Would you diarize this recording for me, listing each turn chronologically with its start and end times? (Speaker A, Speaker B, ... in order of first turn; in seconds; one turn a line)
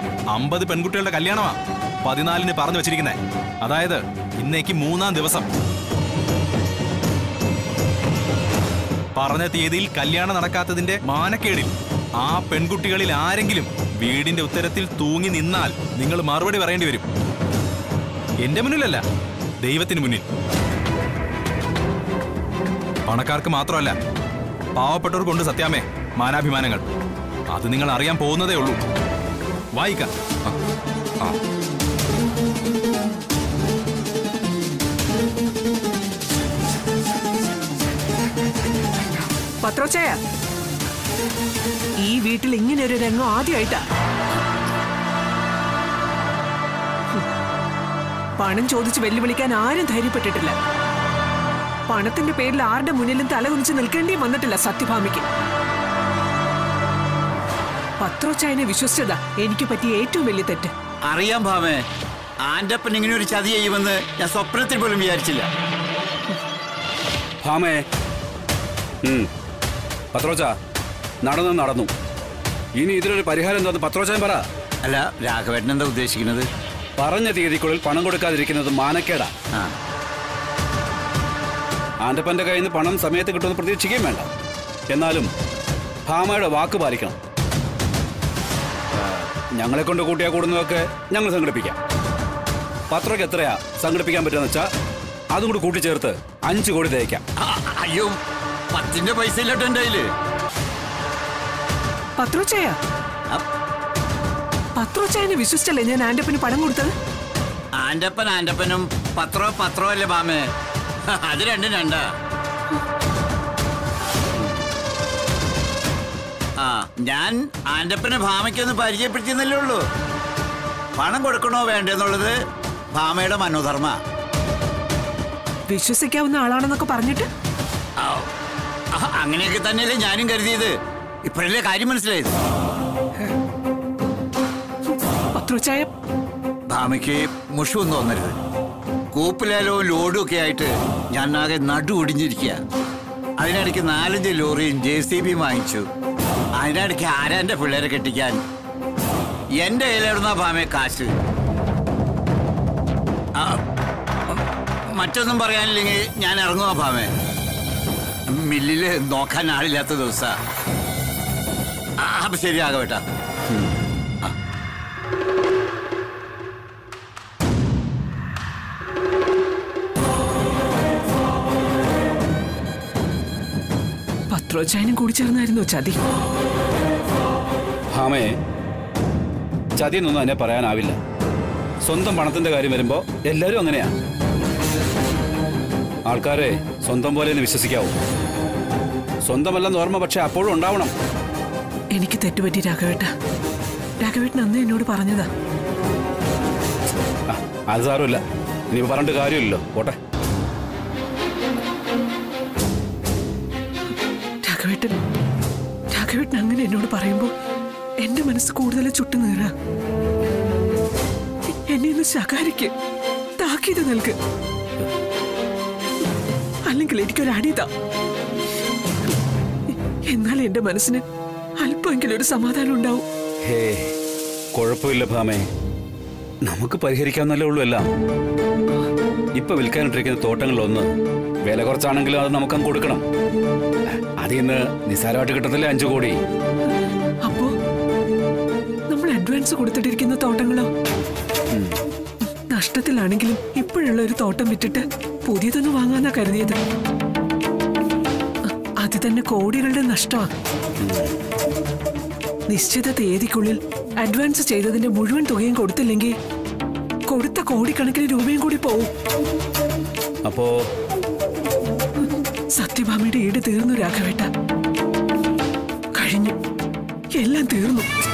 Speaker A: 0.3-5.5
Speaker A: 9.2-17.0
Speaker A: 18.4-19.0
Speaker A: 19.6-20.2
Speaker A: 23.1-23.9
Speaker A: 24.8-26.9
Speaker A: 27.5-28.8
Speaker A: 29.7-30.1
Speaker B: 39.6-40.2
Speaker B: 42.0-43.8
Speaker B: 48.4-50.5
Speaker B: 51.9-55.2
Speaker B: 58.0-60.7
Speaker C: 61.1-61.8
Speaker C: 62.4-65.5
Speaker D: 67.4-67.8
Speaker D: 70.1-70.5
Speaker D: 71.2-71.9
Speaker D: 72.8-74.5
Speaker C: 74.8-76.5
Speaker D: 77.0-79.3
Speaker D: 82.0-84.3
Speaker D: 84.9-85.3
Speaker D: 86.1-87.2
Speaker D: 89.6-91.8
Speaker D: 92.9-94.7
Speaker D: 95.3-97.2
Speaker C: 97.4-98.2
Speaker C: 98.7-100.1
Speaker B: 102.2-102.8
Speaker B: 104.8-106.9
Speaker C: 107.8-110.5
Speaker C: 111.1-112.1
Speaker C: 116.6-119.8
Speaker C: 121.0-122.3
Speaker C: 122.9-124.0
Speaker B: 125.7-127.3
Speaker C: 128.0-128.3
Speaker C: 128.9-130.7
Speaker C: 131.2-132.3
Speaker B: 135.3-135.9
Speaker C: 136.7-138.4
Speaker C: 139.1-142.6
Speaker C: 143.4-145.9
Speaker C: 146.6-148.4
Speaker C: 149.6-151.1
Speaker C: 154.9-157.1
Speaker C: 158.3-160.3
Speaker C: 162.0-163.0
Speaker B: 174.3-176.0
Speaker D: 177.9-178.4
Speaker D: 179.8-181.0
Speaker D: 181.8-183.9
Speaker D: 186.1-188.0
Speaker D: 189.2-190.9
Speaker B: 191.9-193.1
Speaker B: 194.0-195.3
Speaker D: 197.3-200.0
Speaker B: 204.4-205.0
Speaker B: 205.9-207.3
Speaker B: 208.0-209.5
Speaker B: 211.7-212.7
Speaker B: 213.4-214.2
Speaker B: 216.7-217.7
Speaker B: 220.1-221.0
Speaker B: 221.6-223.0
Speaker D: 223.4-223.9
Speaker D: 224.6-225.5
Speaker D: 226.4-227.9
Speaker D: 229.3-230.9
Speaker D: 231.4-233.0
Speaker D: 234.2-236.2
Speaker B: 237.2-237.5
Speaker B: 238.9-240.7
Speaker D: 241.5-241.8
Speaker B: 242.3-246.6
Speaker B: 248.6-250.3
Speaker D: 250.8-251.1
Speaker B: 252.5-256.1
Speaker B: 257.1-258.9
Speaker D: 260.3-260.5
Speaker B: 262.5-264.3
Speaker B: 265.9-266.4
Speaker B: 267.1-267.9